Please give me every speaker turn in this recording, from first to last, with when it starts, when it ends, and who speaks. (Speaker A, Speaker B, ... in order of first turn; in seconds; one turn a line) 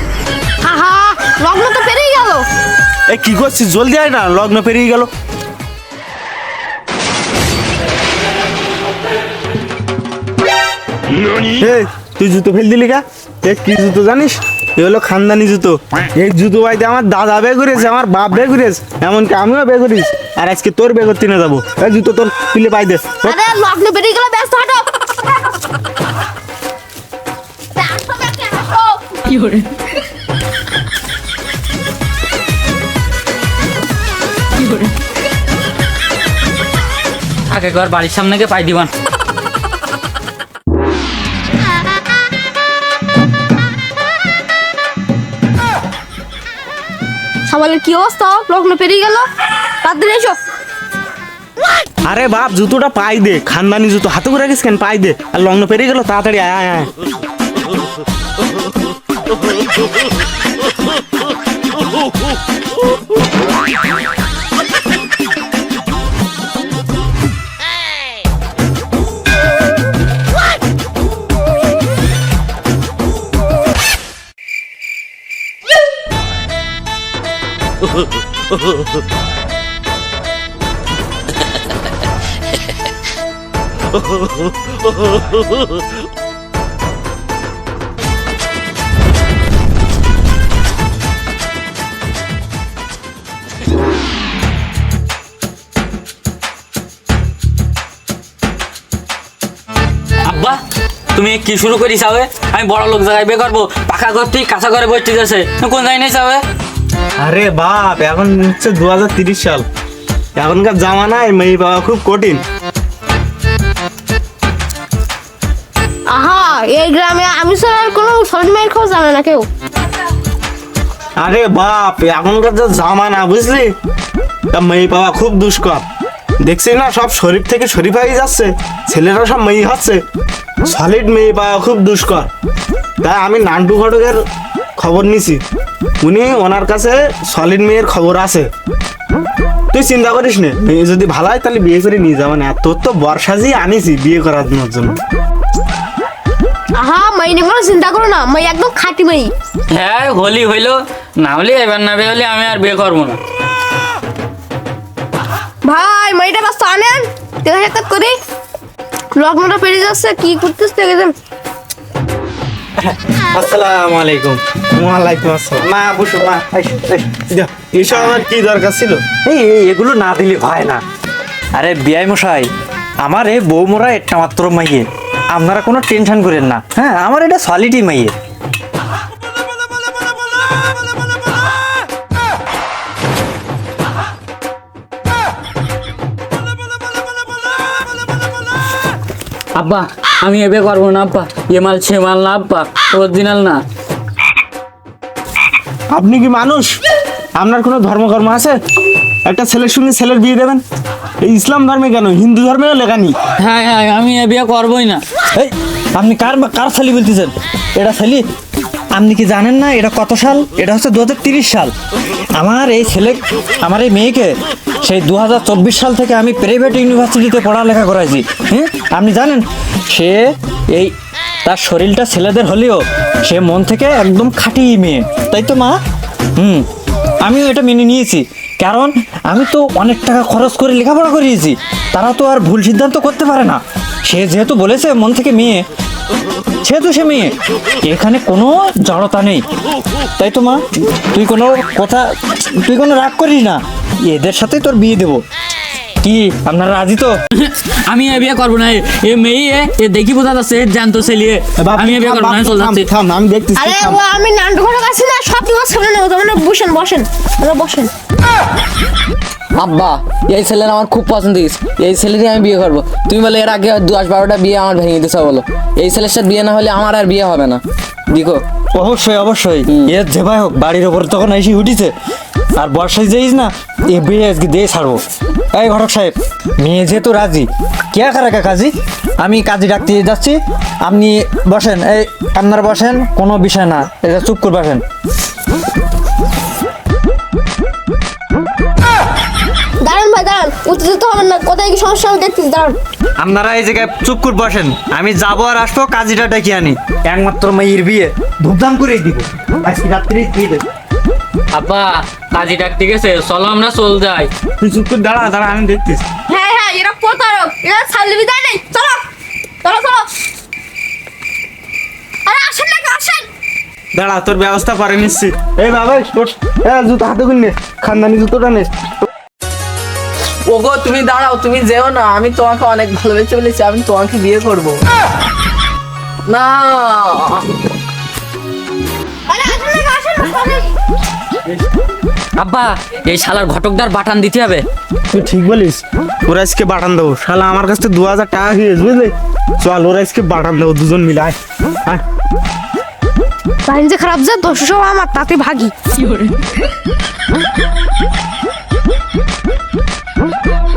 Speaker A: 0.6-2.5
Speaker B: 3.1-5.1
Speaker B: 11.6-23.4
Speaker A: 23.2-25.1
Speaker A: 27.8-29.7
Speaker C: 37.5-38.9
Speaker A: 47.5-49.3
Speaker A: 49.8-50.4
Speaker B: 52.1-56.9
Speaker C: 100.2-100.6
Speaker C: 101.1-106.4
Speaker B: 107.2-109.7
Speaker B: 110.4-112.4
Speaker A: 116.1-119.5
Speaker B: 121.2-123.7
Speaker B: 124.5-125.8
Speaker B: 126.4-130.0
Speaker B: 130.7-132.3
Speaker B: 133.0-134.2
Speaker B: 134.8-135.4
Speaker B: 136.0-138.5
Speaker B: 139.7-145.0
Speaker A: 146.7-149.3
Speaker C: 149.7-153.2
Speaker A: 155.6-158.2
Speaker A: 159.1-161.2
Speaker D: 162.8-164.4
Speaker B: 164.8-165.7
Speaker D: 165.6-167.3
Speaker B: 167.4-169.0
Speaker D: 169.2-170.8
Speaker D: 171.5-172.5
Speaker D: 173.0-178.1
Speaker C: 189.6-193.6
Speaker B: 195.9-196.7
Speaker B: 197.4-198.6
Speaker B: 199.2-200.6
Speaker B: 201.2-203.2
Speaker C: 203.4-205.0
Speaker D: 205.3-208.2
Speaker D: 208.9-211.7
Speaker D: 212.3-220.9
Speaker D: 221.4-225.8
Speaker D: 226.4-226.7
Speaker D: 227.2-235.6
Speaker D: 236.6-237.3
Speaker D: 237.8-239.4
Speaker D: 240.2-245.2
Speaker D: 246.0-247.2
Speaker C: 247.4-252.9
Speaker B: 251.6-254.0
Speaker A: 253.6-257.9
Speaker E: 259.6-268.4
Speaker D: 268.8-271.9
Speaker D: 272.6-275.0
Speaker D: 275.5-284.8
Speaker A: 289.8-292.8
Speaker D: 293.2-300.6
Speaker C: 301.5-304.3
Speaker B: 304.6-306.1
Speaker A: 306.3-309.1
Speaker A: 309.6-310.1
Speaker A: 312.3-313.3
Speaker B: 313.9-318.7
Speaker E: 320.5-324.8
Speaker E: 326.3-327.4
Speaker A: 329.3-330.7
Speaker C: 332.4-334.6
Speaker B: 335.1-342.0
Speaker A: 343.7-346.4